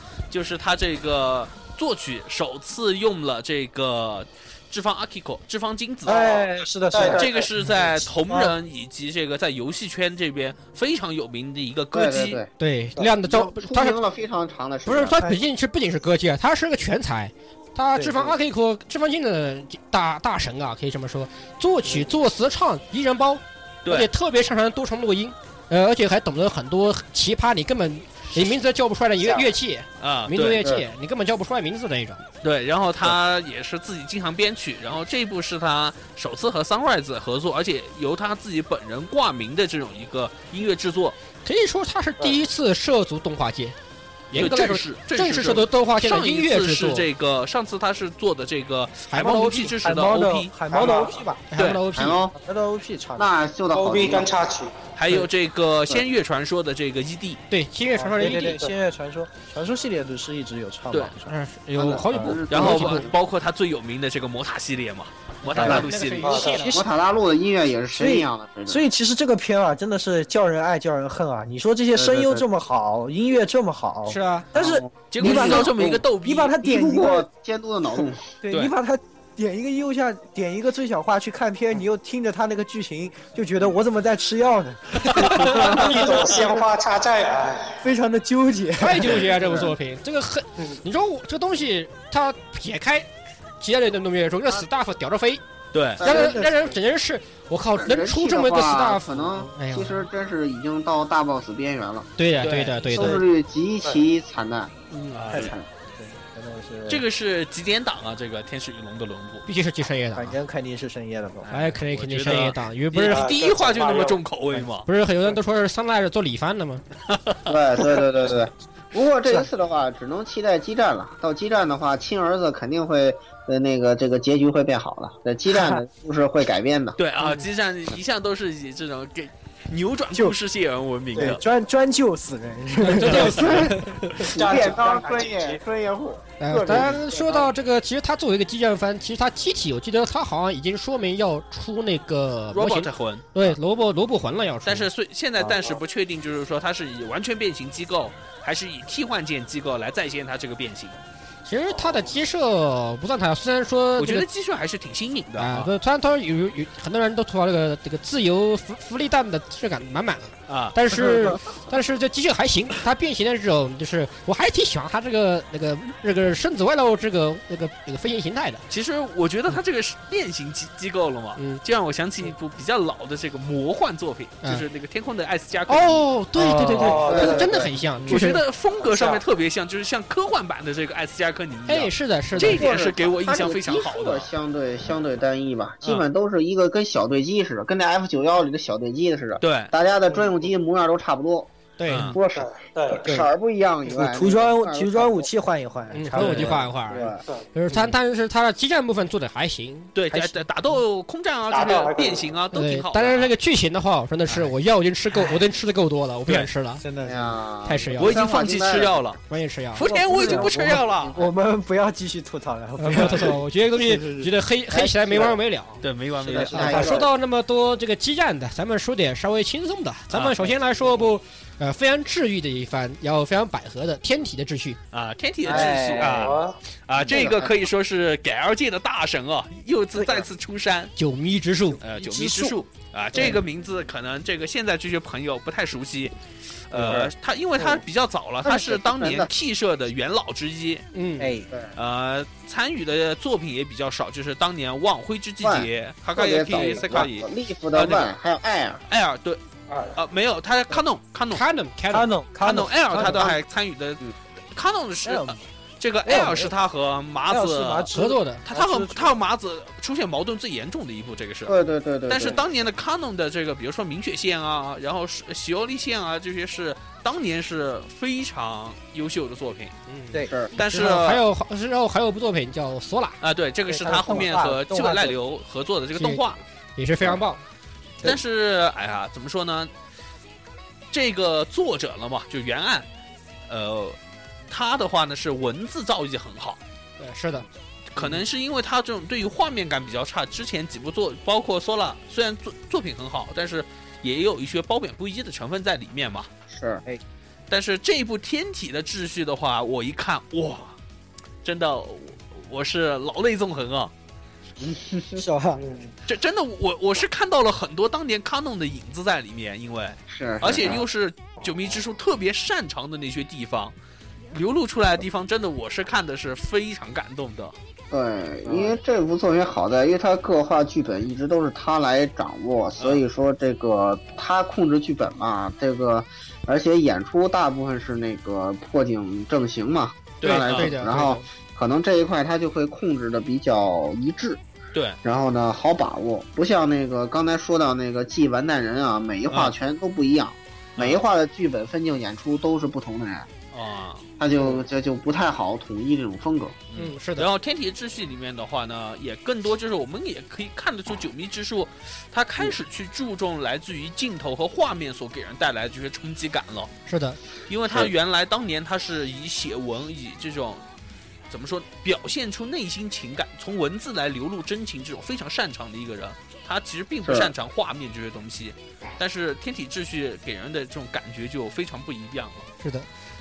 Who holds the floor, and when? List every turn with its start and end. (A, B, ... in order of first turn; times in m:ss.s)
0:00.3-0:12.4 A
0:06.0-0:08.6 B
0:06.9-0:07.4 C
0:11.9-0:12.5 D
0:12.6-0:14.0 E
0:13.0-0:15.2 D
0:14.8-0:32.2 E
0:18.0-0:18.4 B
0:30.0-0:30.6 A
0:32.4-0:41.2 A
0:41.4-0:43.8 E
0:44.3-0:47.1 E
0:44.3-0:50.6 A
0:49.1-0:49.8 E
0:49.8-0:51.4 B
0:50.7-0:51.2 C
0:51.5-0:52.2 E
0:51.6-0:51.8 A
0:51.9-0:52.4 D
0:52.4-0:53.3 B
0:53.2-0:54.3 D
0:53.7-0:54.8 C
0:55.0-0:57.4 A
0:57.5-0:58.6 E
0:58.0-1:01.4 B
1:01.3-1:03.1 E
1:01.8-1:03.2 D
1:01.9-1:02.7 B
1:02.5-1:06.4 A
1:05.4-1:06.8 E
1:05.6-1:05.9 D
1:06.2-1:06.7 C
1:06.6-1:08.8 D
1:07.9-1:17.3 B
1:12.0-1:12.4 D
1:14.1-1:14.5 E
1:14.6-1:16.0 D
1:15.1-1:16.5 A
1:16.6-1:18.3 D
1:18.4-1:26.3 B
1:25.0-1:26.2 E
1:25.2-1:25.6 A
1:25.5-1:25.9 D
1:25.6-1:27.8 C
1:27.8-1:29.3 B
1:28.8-1:33.1 E
1:33.6-1:35.4 E
1:35.7-1:36.0 A
1:36.0-1:36.5 D
1:36.0-1:40.1 E
1:36.1-1:36.5 B
1:37.8-1:42.1 D
1:42.2-1:43.2 E
1:42.4-1:43.2 A
1:42.9-1:44.7 D
1:45.1-1:45.5 A
1:45.3-1:47.0 B
1:45.3-1:45.7 D
1:46.9-1:49.5 A
1:49.5-1:50.4 E
1:50.2-1:51.7 B
1:51.5-1:54.9 A
1:51.5-1:53.3 E
1:53.1-1:54.2 C
1:54.9-1:56.8 E
1:57.1-1:57.6 A
1:57.5-2:07.0 D
2:07.0-2:11.4 A
2:11.2-2:13.9 B
2:12.8-2:14.1 E
2:14.3-2:17.5 D
2:14.3-2:15.6 C
2:16.4-2:24.9 E
2:22.5-2:23.6 A
2:24.6-2:31.0 A
2:31.5-2:34.3 E
2:34.0-2:35.7 A
2:35.4-2:48.6 E
2:40.5-2:40.8 A
2:48.7-2:56.0 A
2:55.7-2:58.4 E
2:56.4-2:58.2 C
2:57.0-2:57.7 D
2:58.1-3:04.3 A
2:58.8-2:59.2 C
3:01.7-3:02.7 E
3:02.4-3:11.5 D
3:09.4-3:09.7 A
3:10.1-3:10.3 C
3:11.8-3:12.2 E
3:11.9-3:12.2 A
3:12.1-3:15.3 D
3:12.3-3:13.2 C
3:13.0-3:13.3 B
3:13.9-3:16.8 B
3:15.9-3:20.4 E
3:16.2-3:17.2 D
3:20.0-3:23.3 A
3:21.5-3:22.2 C
3:22.5-3:26.8 E
3:26.8-3:28.0 B
3:27.0-3:29.0 D
3:27.6-3:28.2 E
3:28.0-3:29.2 A
3:29.3-3:29.9 E
3:29.7-3:31.2 A
3:29.8-3:34.3 B
3:29.9-3:31.3 D
3:32.8-3:35.8 E
3:34.7-3:35.3 D
3:35.8-3:36.8 A
3:36.2-3:37.0 B
3:36.5-3:37.1 D
3:36.6-3:44.8 E
3:40.1-3:40.4 A
3:44.9-3:50.9 A
3:45.4-3:45.9 D
3:45.4-3:46.4 B
3:46.0-3:46.6 C
3:47.0-3:47.5 D
3:50.0-3:50.3 B
3:51.0-3:51.8 E
3:51.8-3:56.2 A
3:52.0-3:52.6 B
3:53.1-3:53.4 B
3:56.7-4:00.8 A
3:56.7-3:57.1 B
3:58.4-3:59.3 D
4:00.9-4:01.3 E
4:01.2-4:01.5 B
4:01.8-4:08.1 A
4:05.4-4:08.8 D
4:06.5-4:07.1 B
4:08.9-4:09.4 A
4:09.7-4:10.0 C
4:10.0-4:11.4 A
4:11.3-4:12.1 E
4:11.9-4:13.3 B
4:12.4-4:14.0 A
4:12.9-4:13.4 D
4:14.6-4:17.9 A
4:15.0-4:15.4 B
4:16.0-4:16.6 B
4:17.3-4:19.2 B
4:17.9-4:18.4 E
4:18.4-4:21.6 A
4:21.5-4:22.4 D
4:22.1-4:29.7 A
4:29.9-4:33.2 E
4:30.3-4:30.5 D
4:30.6-4:31.2 A
4:33.2-4:36.4 A
4:33.7-4:35.2 B
4:36.0-4:36.2 E
4:36.8-4:37.4 E
4:38.0-4:39.7 A
4:40.9-4:42.9 A
4:43.5-4:44.0 A
4:44.5-4:46.6 A
4:47.0-4:47.5 E
4:47.9-4:56.3 A
4:56.5-4:56.8 D
4:57.5-5:00.8 A
5:01.4-5:03.9 A
5:04.6-5:05.2 D
5:05.2-5:05.7 B
5:05.6-5:05.9 C
5:06.1-5:13.8 A
5:10.1-5:10.8 D
5:14.3-5:17.5 A
5:17.9-5:34.4 D
5:30.2-5:30.8 A
5:30.2-5:31.2 E
5:35.0-5:43.3 D
5:39.3-5:39.6 A
5:40.8-5:41.0 A
5:43.5-5:44.1 A
5:44.2-5:46.6 D
5:46.7-5:56.7 A
5:46.8-5:47.3 E
5:56.9-5:57.2 E
5:57.5-6:00.6 A
6:01.3-6:12.5 A
6:07.0-6:07.3 D
6:12.6-6:12.9 E